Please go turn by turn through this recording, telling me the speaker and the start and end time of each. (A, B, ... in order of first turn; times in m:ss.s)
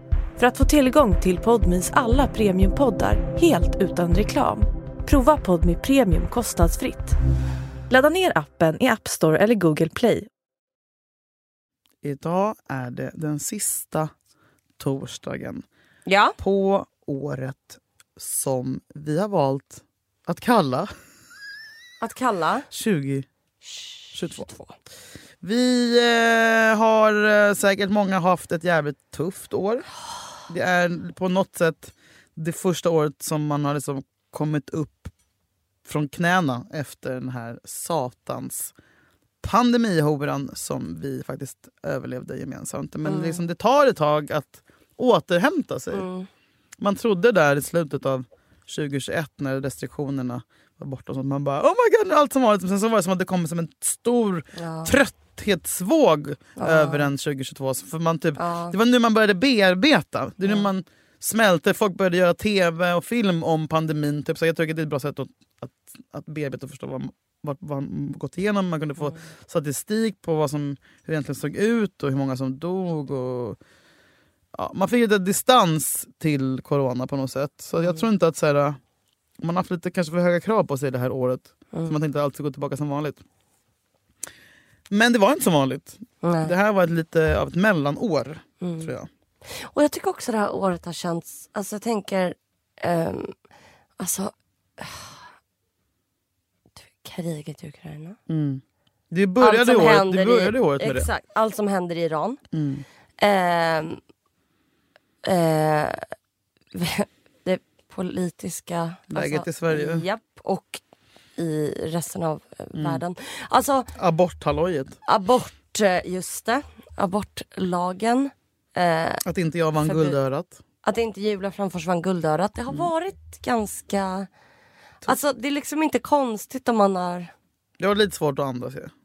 0:00.4-0:07.2 A
0:07.9-0:10.3 A
0:12.0-0:14.1 B
0:14.8-0:15.6 B
0:16.1-0:16.4 C
0:16.4-0:20.9 B
0:22.0-0:22.7 C
0:22.7-0:23.3 B
0:24.1-0:24.6 B
0:25.4-0:29.9 B
0:30.5-0:35.1 B
0:35.9-0:38.7 B
0:39.4-0:46.1 B
0:43.0-0:43.4 C
0:45.9-0:46.3 C
0:46.8-1:13.6 B
0:54.6-0:55.0 C
0:56.6-0:57.1 C
0:58.4-0:58.7 C
1:00.4-1:00.7 C
1:14.5-1:18.8 B
1:19.4-1:23.2 B
1:24.9-1:29.1 B
1:26.2-1:26.5 C
1:28.6-1:28.9 C
1:29.6-1:33.3 C
1:34.0-1:35.2 C
1:36.8-1:38.2 C
1:38.3-1:41.1 B
1:39.4-1:42.4 C
1:42.5-1:42.8 B
1:43.2-1:44.0 C
1:45.2-1:46.1 C
1:46.7-1:50.8 C
1:49.1-1:50.1 B
1:51.4-1:53.9 C
1:52.7-1:53.0 B
1:54.0-1:55.0 B
1:55.0-1:59.2 C
1:59.2-2:00.6 B
1:59.8-2:00.2 C
2:00.8-2:04.3 C
2:05.0-2:07.3 C
2:07.8-2:08.9 B